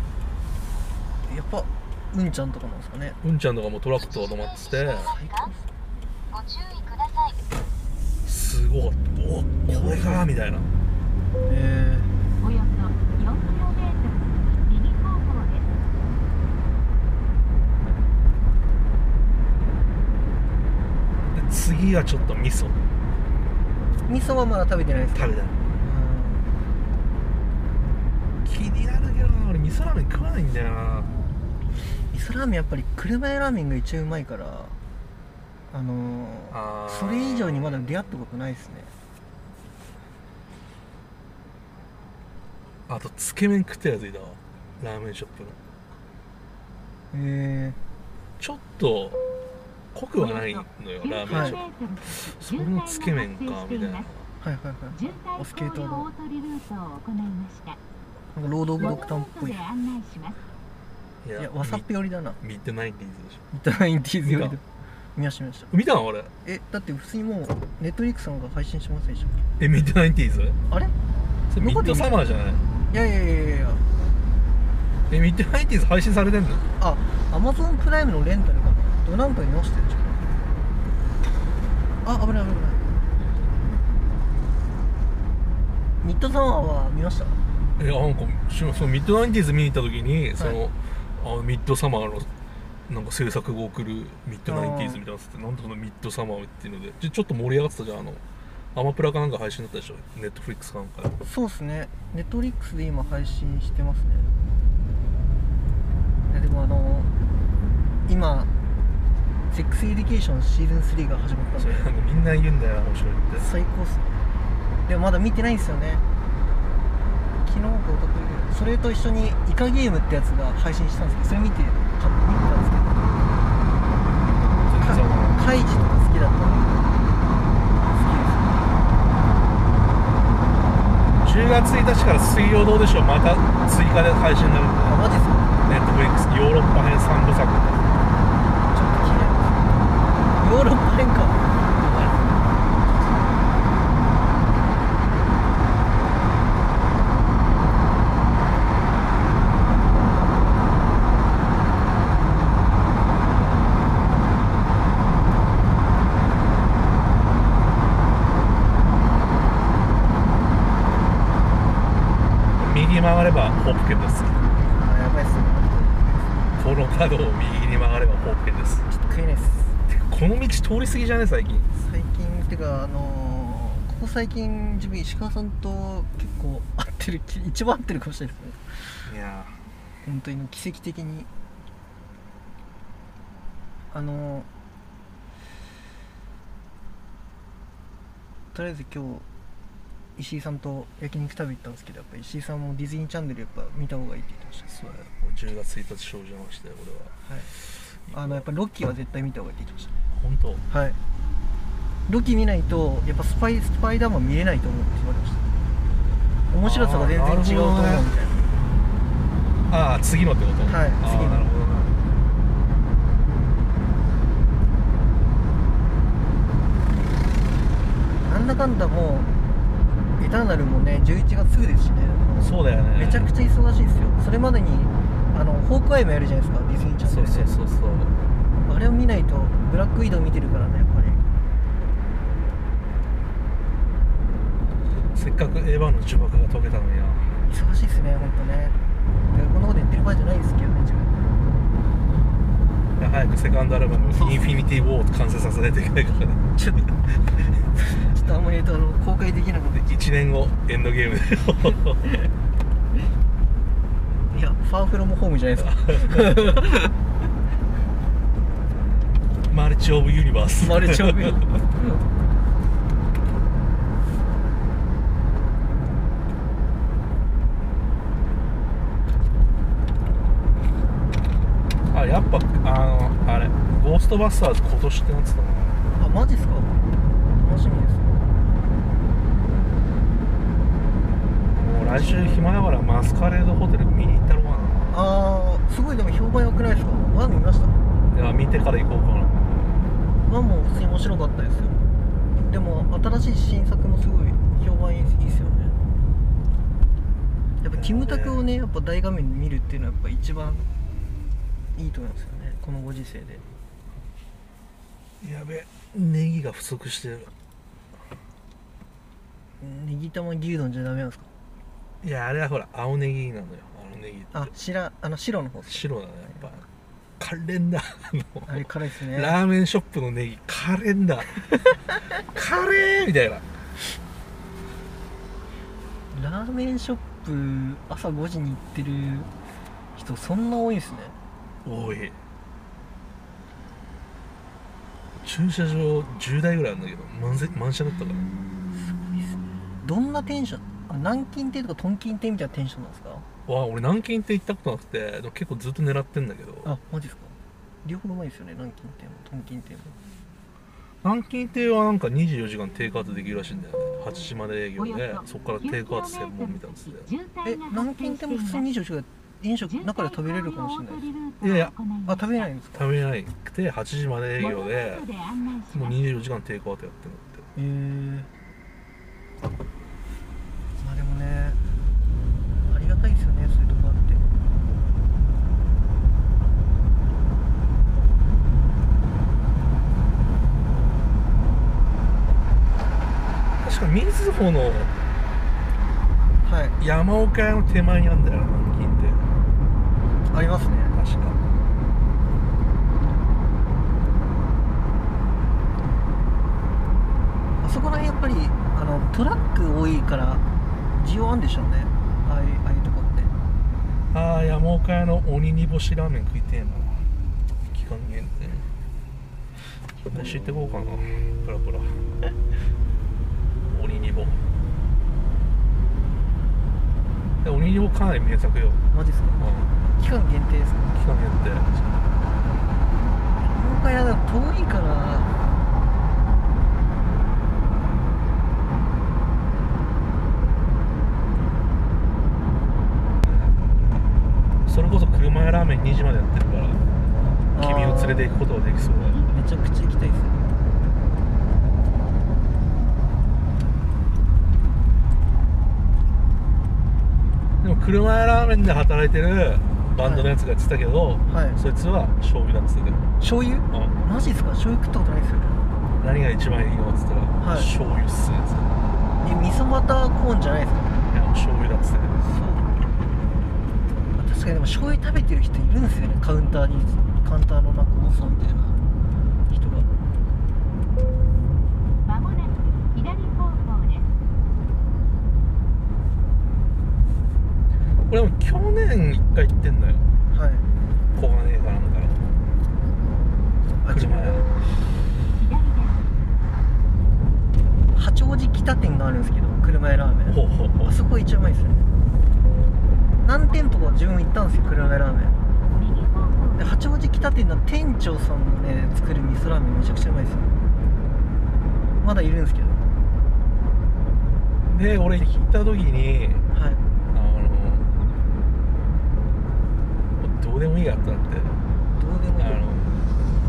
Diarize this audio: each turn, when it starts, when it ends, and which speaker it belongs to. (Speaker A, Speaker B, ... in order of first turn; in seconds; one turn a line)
Speaker A: 1.3-3.2
Speaker B: 3.2-5.2
Speaker A: 5.0-5.7
Speaker B: 8.2-10.7
Speaker A: 9.7-10.3
Speaker A: 11.4-12.1
Speaker C: 12.4-15.7
Speaker B: 21.3-22.8
Speaker A: 24.1-26.5
Speaker B: 25.1-25.7
Speaker B: 28.4-31.1
Speaker A: 32.1-34.8
Speaker A: 35.7-38.9
Speaker B: 36.5-38.1
Speaker B: 42.9-45.6
Speaker A: 47.1-47.8
Speaker B: 48.4-49.2
Speaker B: 49.9-54.3
Speaker C: 51.1-54.0
Speaker A: 51.3-51.6
Speaker A: 54.4-56.1
Speaker C: 55.0-57.8
Speaker A: 58.3-59.7
Speaker C: 59.1-60.4
Speaker B: 61.2-61.9
Speaker A: 61.4-62.4
Speaker B: 62.4-63.4
Speaker A: 63.5-64.6
Speaker B: 64.2-64.6
Speaker A: 65.2-65.7
Speaker B: 65.7-66.3
Speaker A: 66.4-69.4
Speaker B: 69.6-70.6
Speaker A: 70.7-70.9
Speaker B: 71.5-72.7
Speaker A: 71.6-72.2
Speaker A: 72.9-73.8
Speaker B: 75.1-76.7
Speaker A: 76.8-80.3
Speaker A: 82.0-82.8
Speaker A: 86.0-87.4
Speaker B: 87.8-92.3
Speaker B: 92.9-98.2
Speaker A: 94.5-95.0
Speaker B: 98.7-101.1
Speaker A: 101.2-104.3
Speaker A: 106.3-107.1
Speaker A: 108.1-108.5
Speaker A: 109.5-111.9
Speaker B: 111.6-113.5
Speaker A: 113.4-114.2
Speaker A: 114.9-116.0
Speaker A: 117.5-123.0
Speaker B: 124.7-125.4
Speaker A: 124.8-126.8
Speaker A: 127.9-128.7
Speaker B: 131.2-135.0
Speaker A: 134.8-135.5
Speaker B: 135.6-137.9
Speaker A: 138.7-139.7
Speaker A: 140.3-141.6
Speaker B: 141.8-142.3
Speaker B: 162.6-164.5
Speaker A: 164.5-166.4
Speaker B: 166.6-168.9
Speaker A: 168.9-169.8
Speaker B: 169.9-171.7
Speaker A: 171.8-179.0
Speaker B: 179.1-179.6
Speaker A: 180.0-181.3
Speaker A: 183.9-184.5
Speaker A: 188.5-189.3
Speaker A: 190.2-194.7
Speaker B: 194.7-197.2
Speaker A: 197.2-197.5
Speaker B: 197.9-198.4
Speaker A: 198.1-199.9
Speaker B: 200.1-200.6
Speaker A: 200.7-201.0
Speaker A: 202.1-205.4
Speaker A: 206.5-208.5
Speaker B: 206.6-208.1
Speaker B: 209.7-211.9
Speaker A: 210.7-211.5
Speaker A: 218.2-219.3
Speaker A: 220.2-227.5
Speaker B: 222.4-223.3
Speaker B: 227.0-228.2
Speaker A: 228.7-231.2
Speaker B: 235.1-237.3
Speaker A: 237.5-238.8
Speaker A: 239.3-241.1
Speaker B: 243.0-246.4
Speaker A: 246.6-246.9
Speaker A: 247.8-249.9
Speaker B: 249.8-252.0
Speaker A: 254.3-256.9
Speaker B: 255.6-256.6
Speaker B: 259.5-261.4
Speaker A: 260.6-261.7
Speaker B: 271.9-275.8
Speaker A: 276.0-276.7
Speaker A: 277.4-278.2
Speaker B: 281.6-284.8
Speaker A: 281.9-282.4
Speaker A: 284.9-287.7
Speaker B: 288.1-289.4
Speaker A: 290.2-291.8
Speaker A: 292.4-295.7
Speaker A: 297.6-300.7
Speaker B: 297.8-298.4
Speaker A: 301.8-303.4
Speaker B: 305.2-307.3
Speaker A: 309.6-311.3
Speaker B: 312.0-314.5
Speaker A: 314.3-315.9
Speaker B: 315.6-316.6
Speaker B: 317.2-323.4
Speaker A: 318.5-319.4
Speaker A: 326.1-329.3
Speaker A: 329.9-331.2
Speaker B: 331.6-332.2
Speaker B: 335.2-338.3
Speaker A: 338.7-343.2
Speaker B: 343.5-346.7
Speaker A: 346.6-350.0
Speaker B: 351.0-357.1
Speaker C: 357.1-358.6
Speaker A: 357.4-361.1
Speaker C: 360.0-362.2
Speaker B: 361.4-361.8
Speaker A: 362.1-362.9
Speaker B: 362.7-365.1
Speaker C: 364.6-365.8
Speaker B: 365.7-367.4
Speaker A: 367.6-368.3
Speaker A: 370.8-371.6
Speaker A: 372.7-374.2
Speaker B: 383.6-384.9
Speaker A: 386.4-386.8
Speaker B: 386.8-389.2
Speaker A: 390.3-391.0
Speaker B: 390.9-391.4
Speaker A: 397.6-400.4
Speaker A: 401.0-403.3
Speaker B: 404.1-407.1
Speaker B: 407.7-408.7
Speaker A: 410.0-410.5
Speaker B: 410.1-412.0
Speaker B: 413.7-414.4
Speaker B: 417.4-418.8
Speaker A: 418.9-421.0
Speaker B: 419.4-419.7
Speaker B: 420.9-422.1
Speaker A: 423.4-425.4
Speaker B: 433.2-433.6
Speaker B: 434.7-436.8
Speaker A: 437.5-438.3
Speaker B: 437.6-439.2
Speaker A: 439.3-440.4
Speaker B: 447.6-453.0
Speaker A: 450.0-450.3
Speaker A: 451.3-451.6
Speaker A: 453.2-455.6
Speaker B: 456.0-458.8
Speaker A: 457.4-457.7
Speaker A: 459.2-461.1
Speaker B: 461.1-462.2
Speaker A: 462.2-462.8
Speaker A: 464.1-468.8
Speaker A: 469.5-469.9
Speaker C: 472.1-474.1
Speaker B: 478.1-480.1
Speaker A: 480.3-480.6
Speaker B: 481.1-482.3
Speaker A: 483.8-484.4
Speaker B: 483.9-484.5
Speaker C: 485.4-486.0
Speaker A: 487.9-491.9
Speaker B: 490.3-490.9
Speaker A: 493.2-495.4
Speaker C: 495.8-496.6
Speaker A: 496.6-500.5
Speaker A: 502.0-502.8
Speaker B: 504.7-506.4
Speaker A: 505.1-505.5
Speaker A: 506.5-506.8
Speaker B: 507.1-507.9
Speaker B: 510.2-511.6
Speaker A: 511.9-512.6
Speaker B: 512.4-512.9